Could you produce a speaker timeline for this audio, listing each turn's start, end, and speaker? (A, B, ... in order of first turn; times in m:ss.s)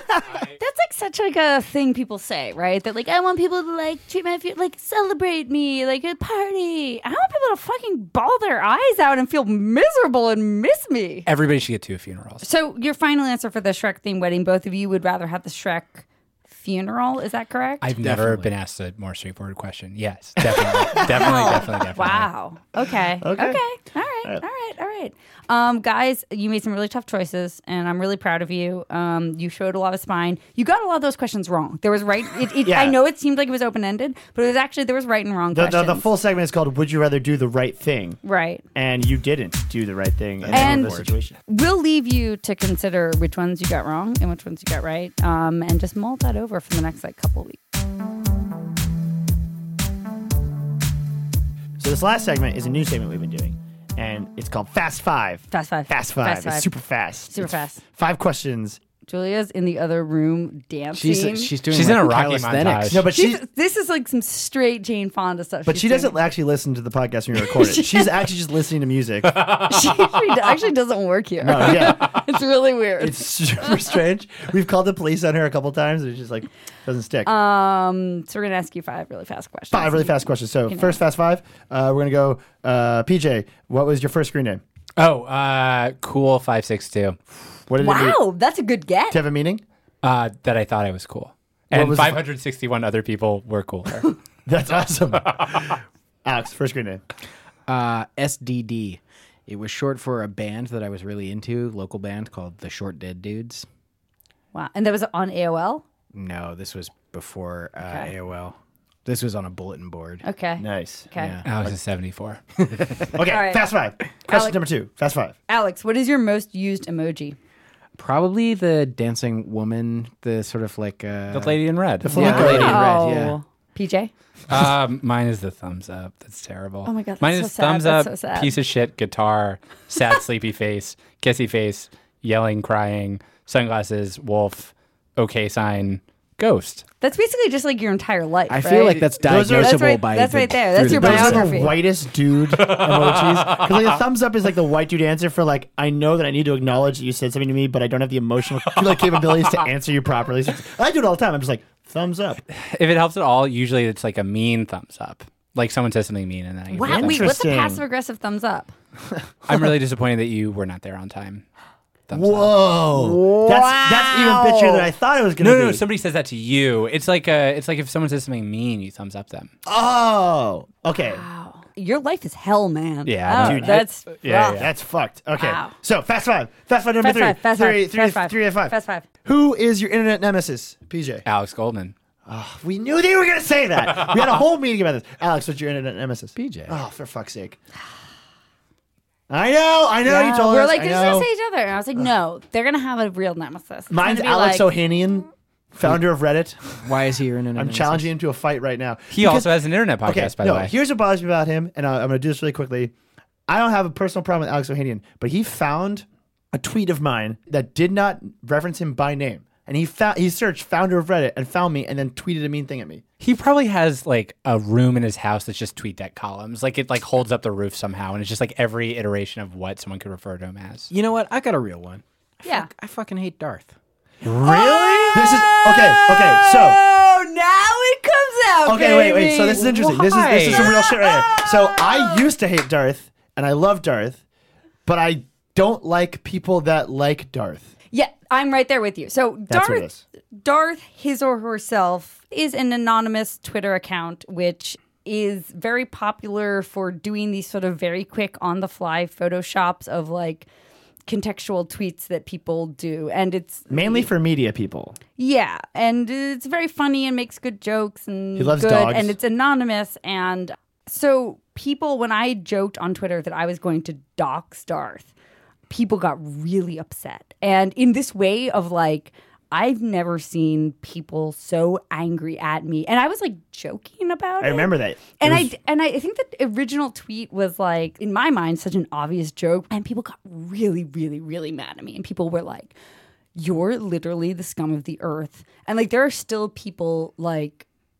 0:00.3-0:00.6 A
0:00.6-0:11.3 B
0:11.3-0:12.4 A
0:12.4-0:17.9 B
0:17.8-0:22.3 A
0:18.0-0:18.5 C
0:20.4-0:21.7 D
0:21.2-0:36.0 B
0:23.2-0:23.6 D
0:32.6-0:33.0 D
0:35.5-0:38.2 D
0:38.2-0:38.6 B
0:38.8-0:41.4 D
0:40.4-0:41.1 C
0:40.5-0:47.6 B
0:51.8-0:58.8 D
0:55.5-0:56.7 B
0:57.3-0:57.8 B
0:59.1-1:01.6 B
1:00.9-1:03.0 C
1:01.7-1:03.1 A
1:02.9-1:03.4 D
1:03.1-1:06.2 B
1:05.7-1:09.5 D
1:07.4-1:08.1 B
1:09.3-1:09.7 A
1:09.6-1:13.9 B
1:11.4-1:12.2 D
1:13.0-1:17.3 D
1:17.2-1:20.1 B
1:19.7-1:24.6 D
1:20.7-1:21.0 B
1:25.0-1:27.2 A
1:27.7-1:28.2 D
1:27.8-1:29.2 B
1:29.1-1:29.6 D
1:30.0-1:34.1 A
1:31.7-1:32.2 D
1:34.5-1:37.0 D
1:37.7-1:43.7 C
1:44.5-1:45.8 B
1:46.1-1:50.2 C
1:50.2-1:51.4 B
1:50.6-1:51.1 D
1:51.2-1:51.5 C
1:51.4-1:52.4 A
1:52.6-1:53.1 C
1:53.1-1:55.4 D
1:53.3-1:53.7 B
1:54.3-1:54.6 B
1:55.5-1:57.4 B
1:58.0-2:03.4 C
2:01.3-2:02.9 A
2:02.0-2:02.8 D
2:02.3-2:04.1 B
2:04.5-2:16.8 A
2:06.8-2:08.5 B
2:17.0-2:21.8 B
2:18.5-2:21.7 C
2:19.2-2:20.0 D
2:20.7-2:32.4 D
2:22.6-2:23.8 A
2:32.5-2:37.3 A
2:36.7-2:38.7 B
2:36.8-2:37.8 D
2:39.5-2:41.4 A
2:42.1-2:42.6 A
2:42.1-2:45.8 D
2:42.9-2:44.1 C
2:43.4-2:44.9 B
2:45.4-2:49.5 A
2:49.6-2:51.2 D
2:51.0-2:54.6 B
2:53.0-2:54.7 A
2:53.3-3:01.2 D
2:55.4-2:55.7 B
2:57.0-2:59.1 B
3:01.2-3:01.9 A
3:02.3-3:07.6 D
3:06.4-3:06.8 C
3:09.3-3:11.3 D
3:10.0-3:14.7 B
3:13.9-3:16.9 D
3:16.8-3:18.1 C
3:17.6-3:22.9 D
3:19.1-3:20.7 A
3:23.5-3:33.0 D
3:33.2-3:40.9 A
3:40.9-3:43.8 C
3:44.2-3:45.3 A
3:44.4-3:52.2 B
3:45.1-3:46.8 D
3:48.6-3:54.2 D
3:49.8-3:50.8 A
3:54.9-3:57.7 D
3:57.9-4:10.5 B
3:59.5-4:00.0 D
4:11.1-4:14.1 B
4:13.7-4:15.0 D
4:15.2-4:25.1 B
4:18.4-4:19.2 D
4:25.7-4:42.7 B
4:34.4-4:35.5 D
4:43.4-4:47.7 B